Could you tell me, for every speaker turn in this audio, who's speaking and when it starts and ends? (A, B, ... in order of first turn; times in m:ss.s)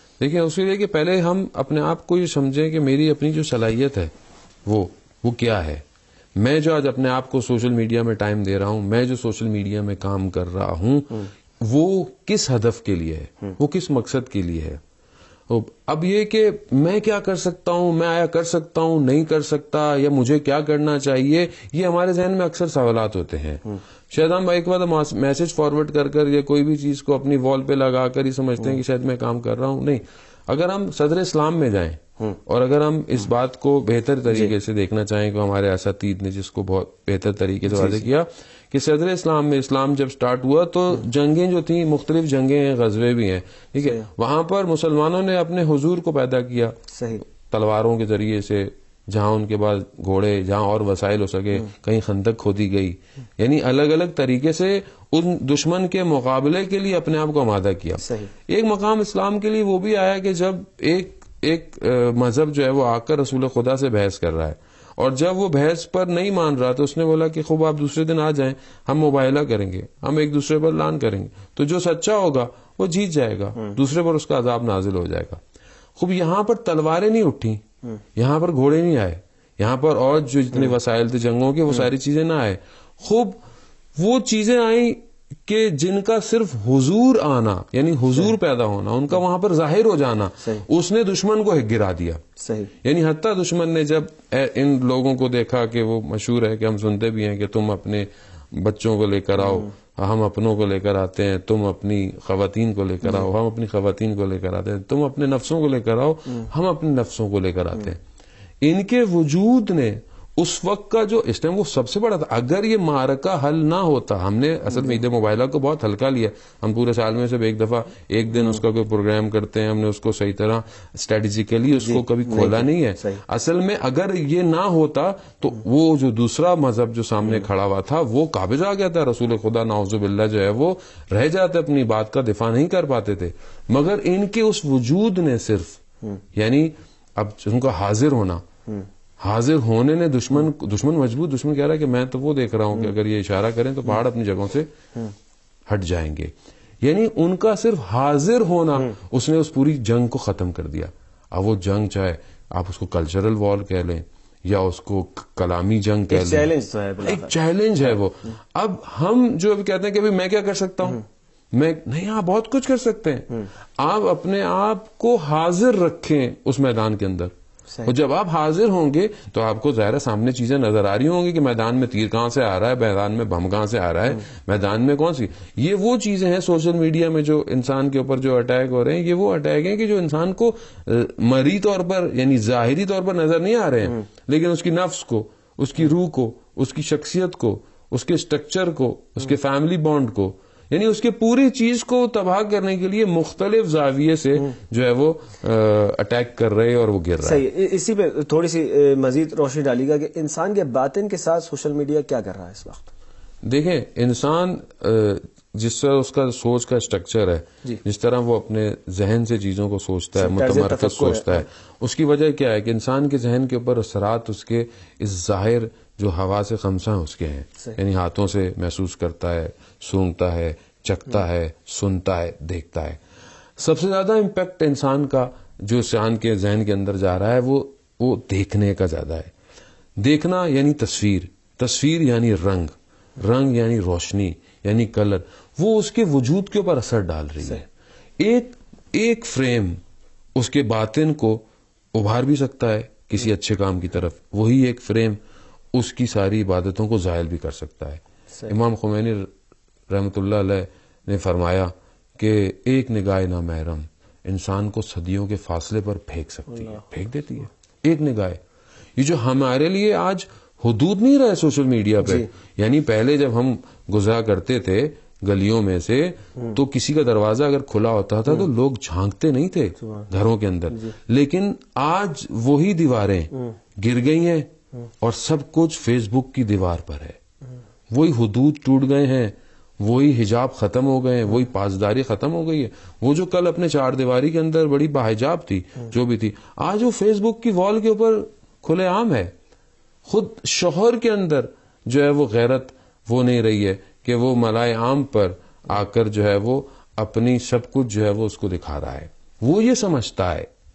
0:00.2-0:04.1 A
0:04.6-0:05.8 A
0:06.3-0:14.8 A
0:15.5-1:15.4 A
0:37.7-0:38.1 B
0:46.9-0:47.2 B
0:58.0-0:58.3 B
1:16.0-1:17.6 A
1:18.2-1:23.4 A
1:24.0-1:32.2 A
1:32.4-1:32.7 B
1:32.8-1:48.0 A
1:39.4-1:39.7 B
1:48.6-2:15.8 A
1:54.7-1:55.0 B
2:01.7-2:03.2 B
2:16.3-2:18.4 A
2:19.2-2:24.7 A
2:25.7-2:36.5 A
2:36.1-2:38.0 B
2:37.0-2:47.3 A
2:47.8-3:17.4 A
3:17.2-3:22.9 B
3:23.4-3:43.0 A
3:30.1-3:31.4 B
3:43.6-3:49.3 A
3:50.0-3:57.7 A
3:58.2-3:59.8 A
4:00.4-4:05.2 A
4:05.7-4:09.3 A
4:09.9-4:18.4 A
4:16.5-4:16.8 B
4:19.0-4:34.5 A
4:22.0-4:22.3 B
4:29.8-4:30.1 B
4:35.0-4:37.2 A
4:37.9-4:49.3 A
4:50.0-5:00.5 A